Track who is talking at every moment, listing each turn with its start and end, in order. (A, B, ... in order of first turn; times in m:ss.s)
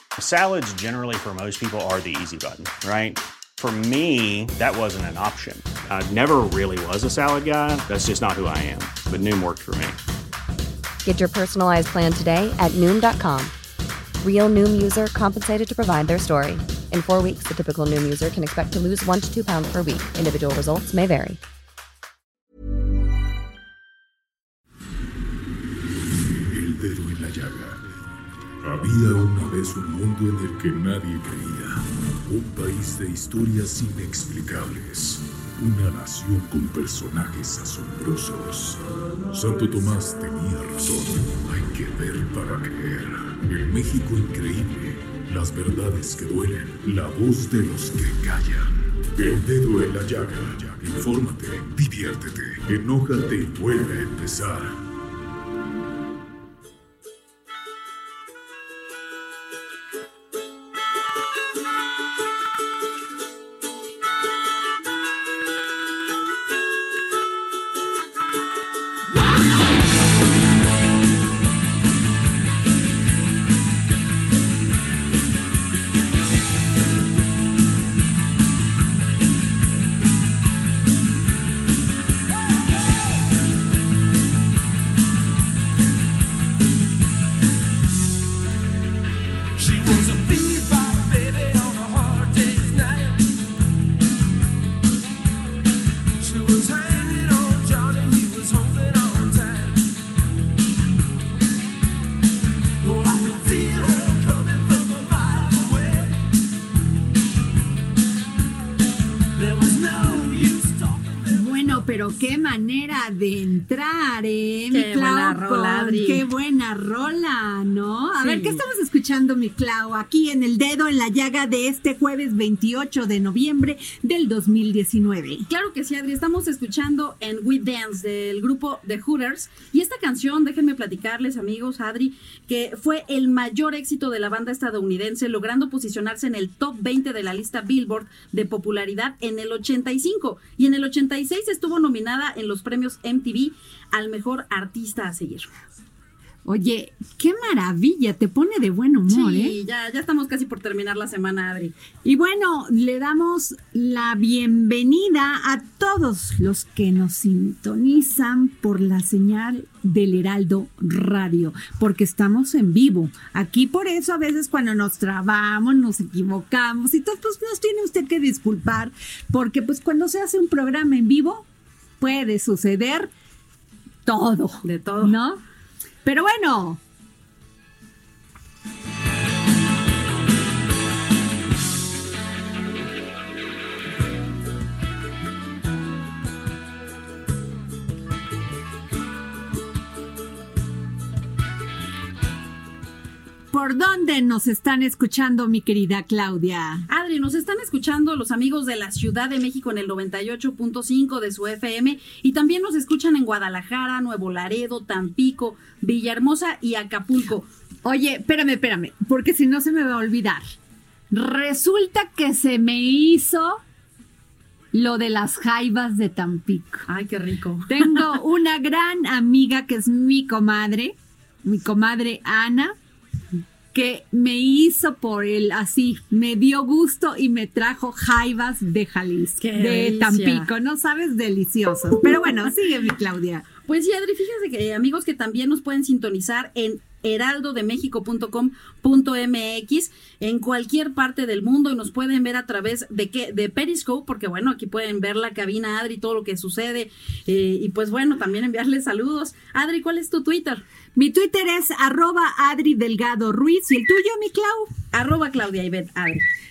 0:00.2-0:10.0 A
0:11.0-0:13.5 B
0:14.2-0:21.4 B
0:26.4-0:27.8 C
0:28.6-0:54.8 C
1:29.6-1:33.3 D
1:36.2-1:39.8 D
1:42.8-1:46.2 D
1:49.4-1:51.4 D
1:51.3-2:05.5 E
1:54.7-1:56.3 F
1:58.2-1:58.6 F
2:05.5-2:25.5 F
2:26.4-2:29.6 E
2:29.1-2:31.7 F
2:32.0-2:51.5 E
2:52.0-2:53.1 E
2:54.0-2:55.4 E
2:54.6-2:55.2 F
2:56.0-2:56.8 E
3:13.5-3:16.9 E
3:16.9-3:27.5 F
3:27.8-3:30.5 E
3:31.1-3:33.6 E
3:34.7-3:36.9 E
3:36.9-3:38.1 F
3:37.7-3:42.8 E
3:43.7-3:53.5 E
3:49.4-3:50.5 F
3:53.6-4:10.6 F
4:11.0-4:14.7 E
4:14.9-4:16.2 F